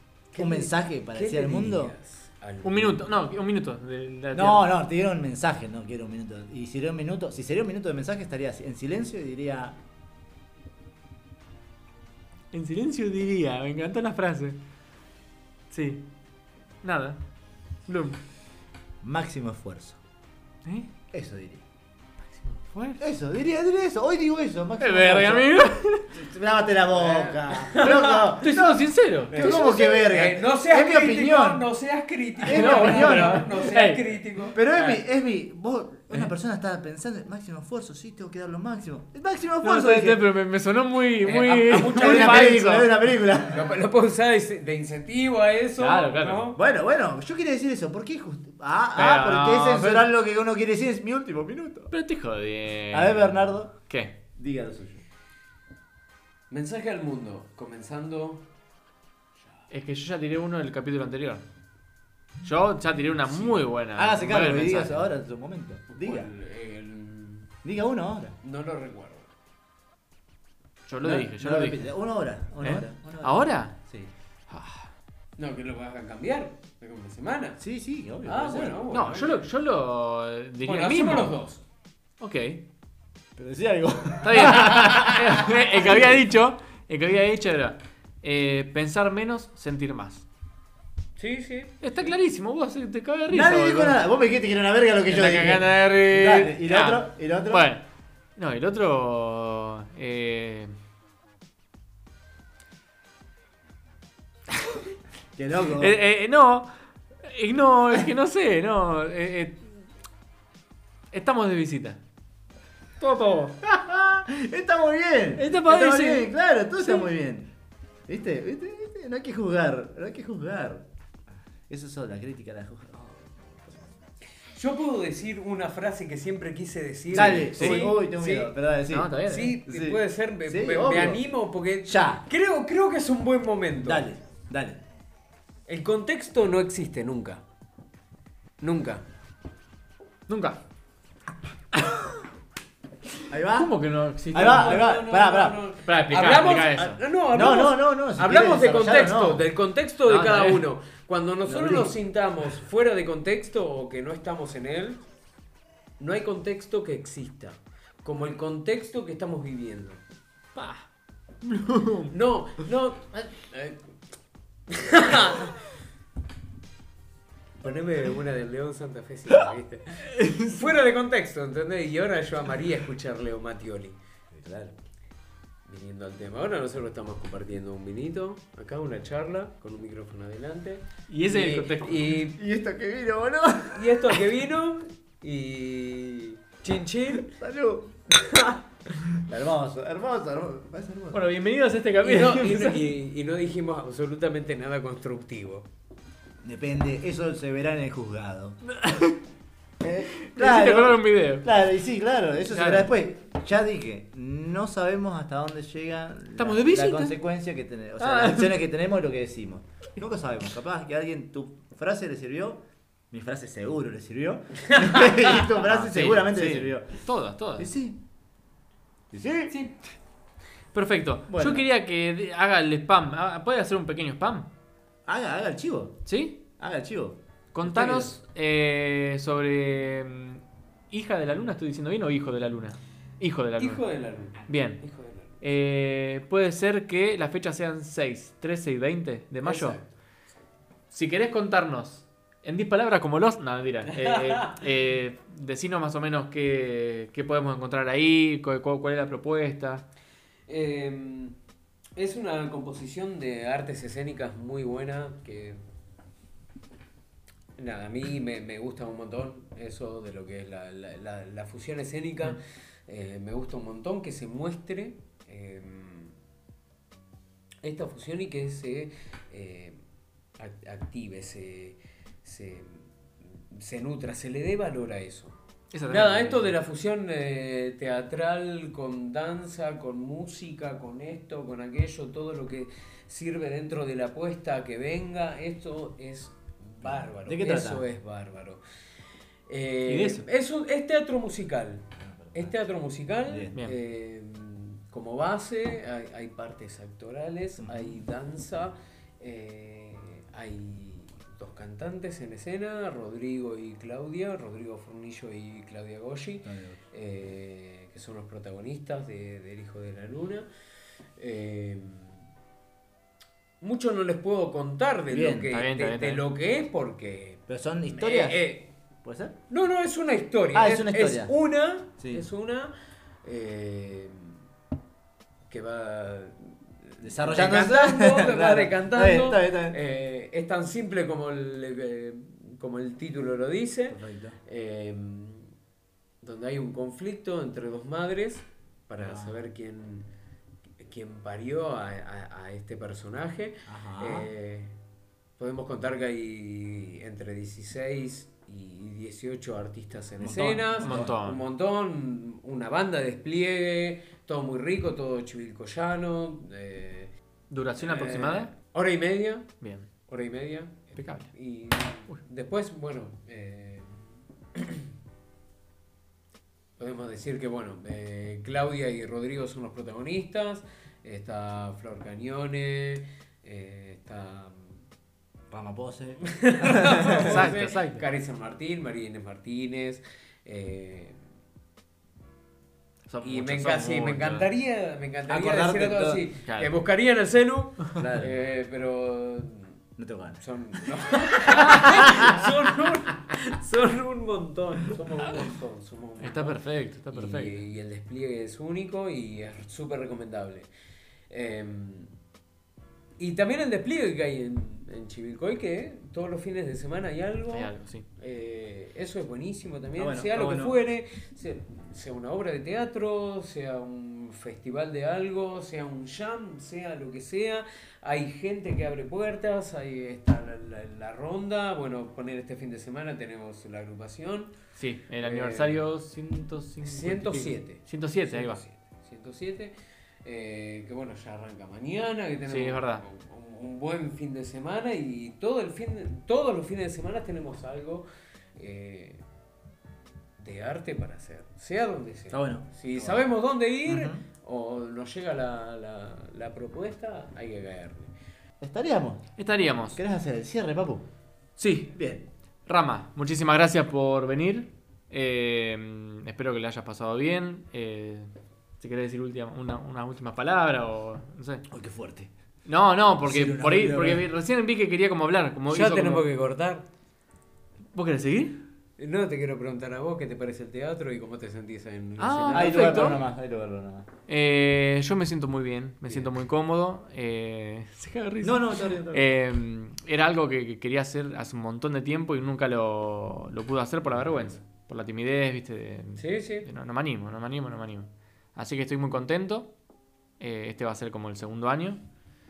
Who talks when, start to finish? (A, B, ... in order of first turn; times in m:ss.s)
0:00.3-0:03.1 A
0:00.4-0:01.9 B
0:02.6-0:04.7 C
0:04.3-0:09.8 B
0:12.5-0:14.6 C
0:15.7-0:16.1 C
0:16.8-0:17.2 C
0:17.9-0:18.2 C
0:19.0-0:20.0 B
0:20.6-0:20.9 C
0:21.1-0:21.6 B
0:22.4-0:23.0 C
0:23.0-0:31.7 B
0:24.8-0:26.1 C
0:27.0-0:28.3 A
0:27.8-0:29.5 C
0:29.3-0:35.0 A
0:32.4-0:33.7 B
0:32.4-0:34.0 C
0:34.5-0:40.2 B
0:39.6-0:42.9 C
0:41.2-0:42.9 A
0:41.7-0:43.7 B
0:43.5-0:46.6 A
0:45.8-0:46.5 C
0:46.5-0:51.9 B
0:49.0-0:50.0 C
0:51.9-0:54.1 C
0:52.9-0:53.7 B
0:54.4-0:55.0 B
0:56.5-0:58.4 A
0:59.7-1:01.4 C
1:02.4-1:05.1 C
1:03.9-1:06.3 B
1:05.9-1:07.5 A
1:07.6-1:08.4 B
1:08.4-1:09.3 A
1:10.9-1:11.9 C
1:11.0-1:14.1 B
1:12.6-1:13.8 C
1:14.5-1:14.9 C
1:15.4-1:17.6 A
1:17.6-1:18.8 B
1:18.2-1:19.5 A
1:18.9-1:21.3 C
1:20.6-1:21.6 A
1:22.2-1:22.6 C
1:23.4-1:26.2 B
1:24.2-1:30.2 C
1:31.2-1:32.0 A
1:31.8-1:34.0 C
1:33.3-1:37.7 B
1:35.1-1:37.8 C
1:38.4-1:40.7 C
1:45.4-1:46.0 B
1:45.8-1:46.7 C
1:47.2-1:49.8 C
1:51.1-1:52.0 C
1:53.0-1:53.6 C
1:53.6-1:57.5 B
1:55.4-1:57.1 C
1:58.1-2:00.8 B
2:01.7-2:04.0 B
2:04.5-2:08.5 A
2:07.1-2:09.1 B
2:07.1-2:08.0 C
2:08.9-2:09.6 C
2:09.2-2:14.0 A
2:09.6-2:11.2 B
2:11.8-2:12.2 B
2:13.8-2:14.8 B
2:15.7-2:17.4 A
2:18.6-2:19.0 A
2:20.3-2:20.6 C
2:21.8-2:22.2 C
2:23.3-2:23.7 B
2:23.4-2:24.9 C
2:24.3-2:25.6 B
2:24.3-2:35.0 A
2:25.8-2:27.0 C
2:27.3-2:29.4 B
2:30.0-2:30.6 C
2:31.4-2:32.0 B
2:36.0-2:40.0 A
2:40.5-2:40.9 C
2:41.4-2:42.1 C
2:42.1-2:43.8 A
2:44.7-2:45.6 A
2:47.6-2:54.0 A
2:50.1-2:50.6 C
2:54.3-2:54.7 B
2:55.7-3:02.4 A
3:01.1-3:02.2 C
3:02.3-3:04.2 B
3:03.7-3:07.3 A
3:07.2-3:08.5 B
3:09.1-3:11.2 B
3:11.1-3:12.8 C
3:12.0-3:15.7 A
3:16.4-3:18.6 B
3:18.6-3:19.2 C
3:19.8-3:36.9 B
3:20.1-3:21.5 C
3:22.5-3:22.9 C
3:26.4-3:27.2 C
3:28.0-3:28.5 C
3:34.7-3:35.4 A
3:35.5-3:37.7 C
3:37.6-3:38.0 B
3:39.1-3:39.6 B
3:39.5-3:39.8 C
3:40.7-3:44.5 C
3:41.3-3:41.6 B
3:45.0-3:46.0 B
3:46.0-3:46.4 C
3:46.6-3:48.1 B
3:47.5-3:53.8 C
3:53.6-3:55.3 A
3:54.5-3:54.8 C
3:55.4-3:59.8 C
3:59.4-3:59.9 A
4:00.9-4:09.8 C
4:03.9-4:04.6 A
4:10.5-4:11.3 A
4:12.0-4:15.6 A
4:17.6-4:26.1 A
4:27.6-4:29.8 A
4:30.4-4:32.8 A
4:33.4-4:35.4 A
4:35.7-4:36.5 C
4:35.9-4:48.6 A
4:46.8-4:47.8 B
4:49.5-5:10.5 A
4:49.9-4:50.3 C
4:52.0-4:52.6 B
4:53.2-4:53.6 B
4:57.6-4:58.0 B
5:06.4-5:06.8 B
5:11.2-5:12.2 A
5:13.6-5:18.7 A
5:15.1-5:15.5 B
5:15.5-5:16.2 C
5:17.5-5:18.4 B
5:19.0-5:19.4 B
5:19.5-5:22.7 A
5:20.5-5:21.3 B
5:22.0-5:22.2 B
5:23.2-5:24.4 A
5:25.5-5:35.5 A
5:27.0-5:29.8 B
5:33.9-5:34.4 B
5:36.2-5:40.1 A
5:39.0-5:39.3 B
5:40.8-5:44.8 A
5:43.7-5:44.3 B
5:45.4-5:57.1 A
5:50.2-5:51.2 B
5:50.3-5:51.4 C
5:57.5-5:58.5 C
5:57.8-5:59.5 A
5:59.6-5:59.9 C
6:00.1-6:04.9 A
6:01.0-6:01.3 C
6:06.8-6:14.8 A
6:15.5-6:17.5 B
6:16.2-6:21.2 A
6:17.1-6:18.0 C
6:23.1-6:24.5 C
6:23.2-6:29.7 A
6:25.3-6:26.2 B
6:26.4-6:26.7 C
6:28.0-6:28.3 B
6:30.0-6:30.4 B
6:30.4-6:40.7 A
6:31.5-6:32.5 B
6:31.6-6:31.9 C
6:36.2-6:37.6 C
6:41.3-6:42.1 A
6:43.2-7:04.6 A
6:47.5-6:48.0 C
6:50.0-6:50.8 B
7:04.8-7:08.6 C
7:05.2-7:05.8 A
7:06.8-7:09.7 A
7:10.2-7:19.2 A
7:12.5-7:13.0 C
7:20.4-7:28.1 A
7:22.3-7:23.2 B
7:23.9-7:24.2 B
7:28.6-7:29.3 B
7:29.4-7:30.0 C
7:29.9-7:31.0 B
7:31.6-7:31.9 C
7:31.9-7:32.2 B
7:32.6-7:41.6 C
7:41.7-7:42.3 B
7:42.6-7:46.2 C
7:43.2-7:44.3 B
7:45.7-7:46.8 A
7:47.9-7:48.6 C
7:49.0-7:53.2 A
7:52.2-7:53.2 C
7:52.5-7:54.1 B
7:54.3-8:09.7 C
7:58.4-7:59.2 B
8:06.2-8:06.7 A
8:10.4-8:12.0 C